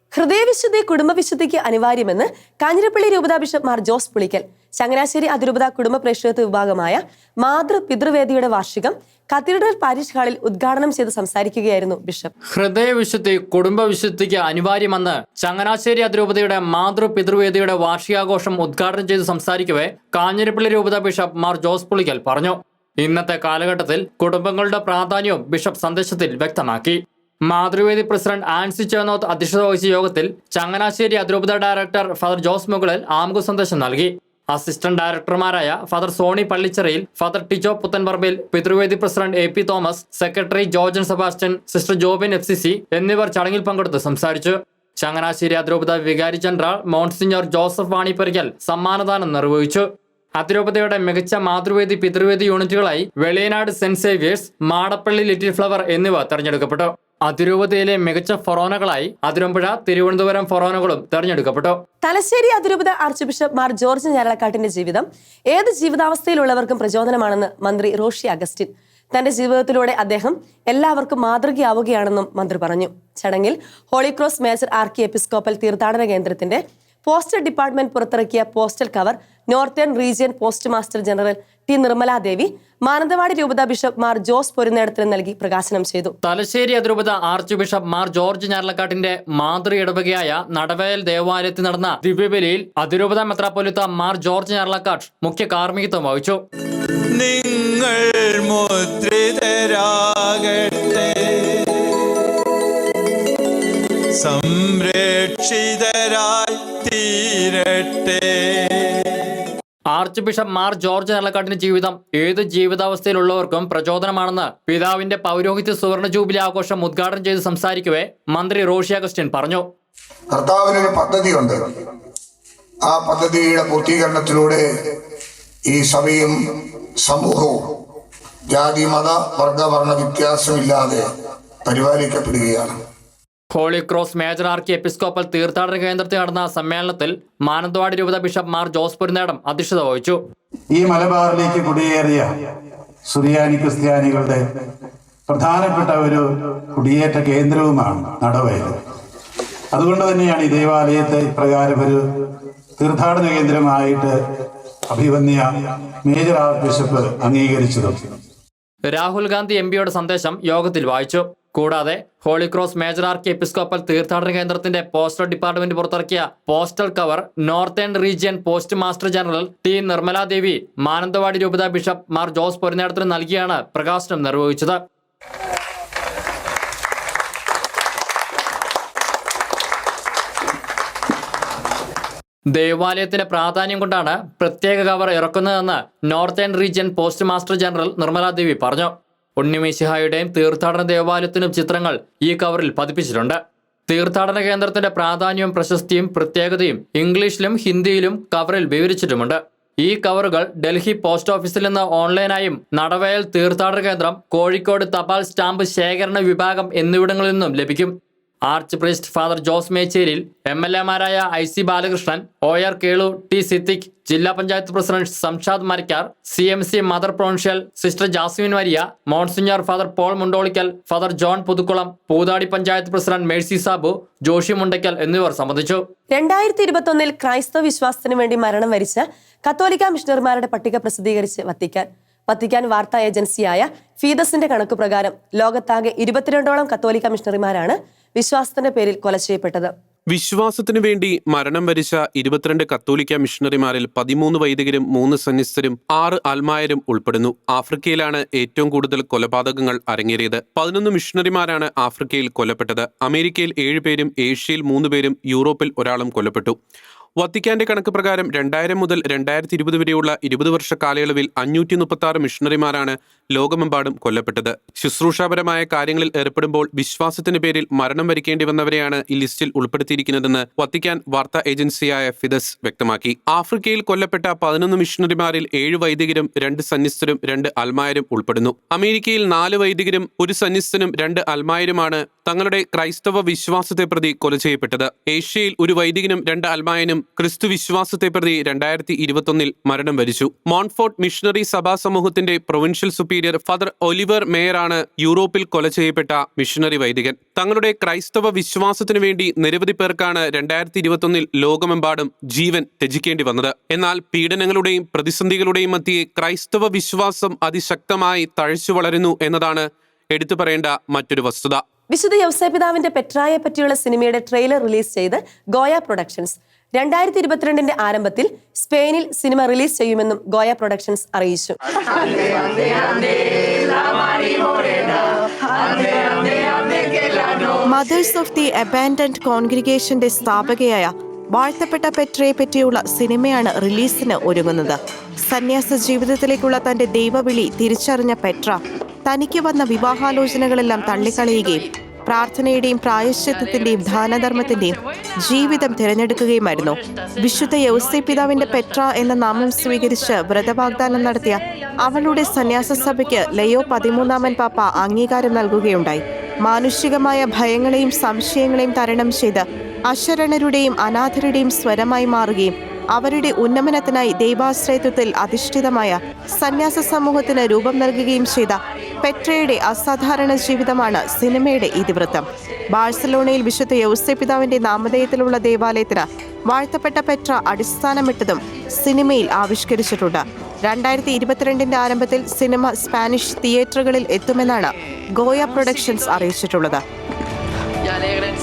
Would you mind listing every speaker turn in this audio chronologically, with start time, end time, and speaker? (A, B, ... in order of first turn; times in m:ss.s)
0:00.1-0:12.3 A
0:12.5-0:49.9 B
0:50.4-1:01.8 B
1:02.0-1:26.1 A
1:26.2-1:36.4 B
1:37.1-1:41.8 C
1:44.2-1:49.1 C
1:49.9-1:59.7 B
2:00.3-2:01.8 D
2:02.9-2:04.6 D
2:05.7-2:07.7 D
2:08.5-2:11.0 D
2:11.6-2:12.7 D
2:13.5-2:20.2 B
2:20.7-2:22.3 E
2:23.1-2:24.4 E
2:25.3-2:28.8 E
2:29.7-2:32.0 E
2:32.8-2:34.1 E
2:34.9-2:38.0 E
2:38.9-2:54.8 B
3:02.5-3:27.9 B
3:28.5-3:45.8 B
3:46.1-3:59.7 A
4:00.1-4:16.6 F
4:17.2-5:11.6 F
5:11.9-5:21.6 A
5:27.6-6:26.8 G